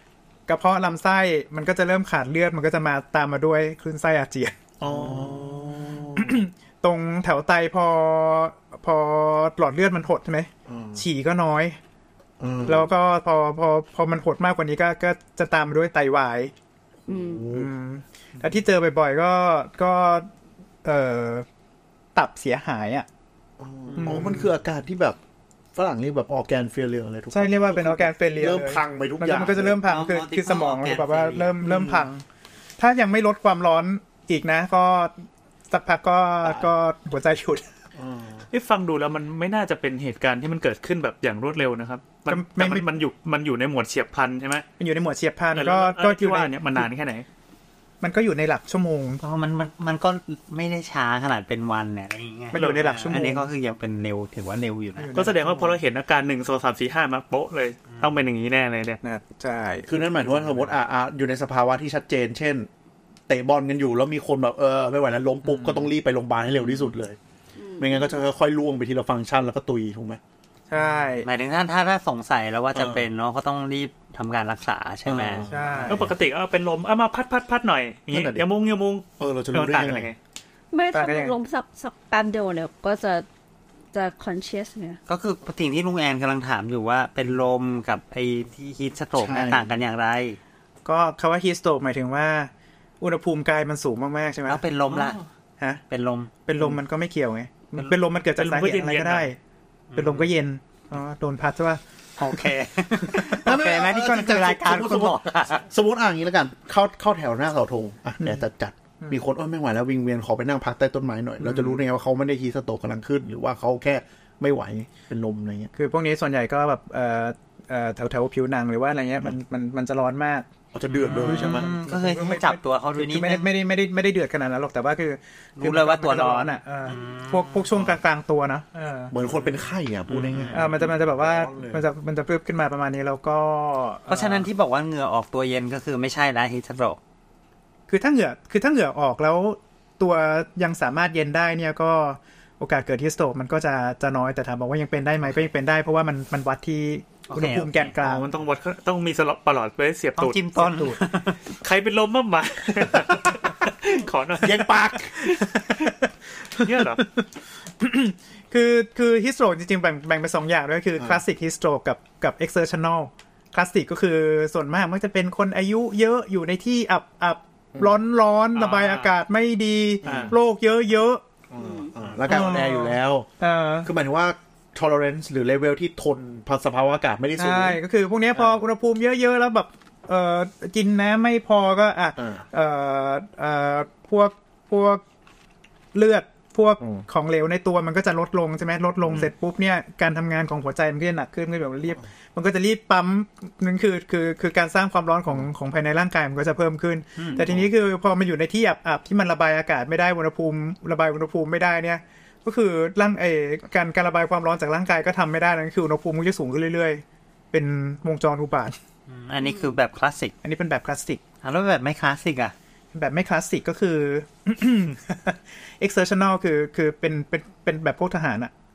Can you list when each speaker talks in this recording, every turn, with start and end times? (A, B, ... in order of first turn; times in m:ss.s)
0:00.5-0:04.6 A
0:04.8-0:06.4 B
0:06.2-0:11.8 A
0:10.7-0:11.0 B
0:12.4-0:12.9 B
0:12.6-0:16.5 A
0:17.1-0:17.7 B
0:17.1-0:17.5 C
0:17.5-0:20.3 A
0:20.8-0:21.5 A
0:22.2-0:23.1 A
0:23.6-0:25.2 B
0:24.0-0:24.5 A
0:25.8-0:29.8 B
0:27.3-0:32.2 A
0:29.7-0:31.6 D
0:31.6-0:32.1 B
0:32.8-0:37.6 A
0:38.0-0:38.5 B
0:38.5-0:44.6 E
0:42.3-0:42.9 A
0:44.8-0:46.9 A
0:45.6-0:47.3 E
0:48.0-0:49.2 A
0:49.2-0:55.3 D
0:52.5-0:53.5 A
0:52.5-0:53.2 E
0:55.0-0:55.8 A
0:55.2-0:59.0 E
0:59.0-0:59.9 A
0:59.9-1:02.7 B
1:00.3-1:00.7 D
1:03.3-1:07.2 B
1:07.6-1:08.2 C
1:07.8-1:10.2 B
1:10.7-1:11.3 A
1:11.2-1:15.5 D
1:12.7-1:13.1 B
1:15.1-1:16.1 B
1:15.5-1:16.1 A
1:15.9-1:20.2 E
1:18.1-1:18.4 B
1:19.2-1:20.1 B
1:20.7-1:23.3 C
1:20.9-1:21.4 A
1:23.9-1:25.0 C
1:25.1-1:30.4 D
1:29.2-1:29.7 B
1:30.8-1:32.5 A
1:33.0-1:34.6 A
1:34.5-1:35.2 D
1:34.9-1:35.2 E
1:35.9-1:36.3 D
1:36.5-1:39.4 A
1:38.4-1:39.3 E
1:39.9-1:40.3 D
1:40.0-1:41.8 A
1:42.2-1:45.6 D
1:43.3-1:55.7 B
1:51.5-1:51.7 A
1:55.7-2:00.5 A
2:00.7-2:01.7 B
2:01.1-2:03.5 D
2:01.1-2:09.1 A
2:05.6-2:07.8 D
2:09.1-2:11.8 B
2:10.1-2:10.7 D
2:10.5-2:14.5 A
2:14.1-2:17.0 D
2:17.9-2:28.3 A
2:27.3-2:27.9 D
2:28.0-2:30.4 E
2:30.2-2:31.4 D
2:30.6-2:31.0 A
2:31.6-2:34.8 E
2:34.4-2:35.2 B
2:35.2-2:37.2 A
2:36.6-2:37.0 E
2:37.8-2:51.2 A
2:48.6-2:49.1 E
2:50.0-2:50.3 B
2:50.0-2:50.3 E
2:51.5-2:53.3 B
2:51.6-2:51.9 C
2:52.3-2:53.9 A
2:53.8-2:57.8 B
2:57.4-3:05.0 A
3:02.2-3:02.4 B
3:05.9-3:28.8 A
3:17.4-3:17.7 B
3:29.1-3:30.3 D
3:30.4-3:31.2 A
3:31.4-3:32.5 D
3:32.9-3:38.5 A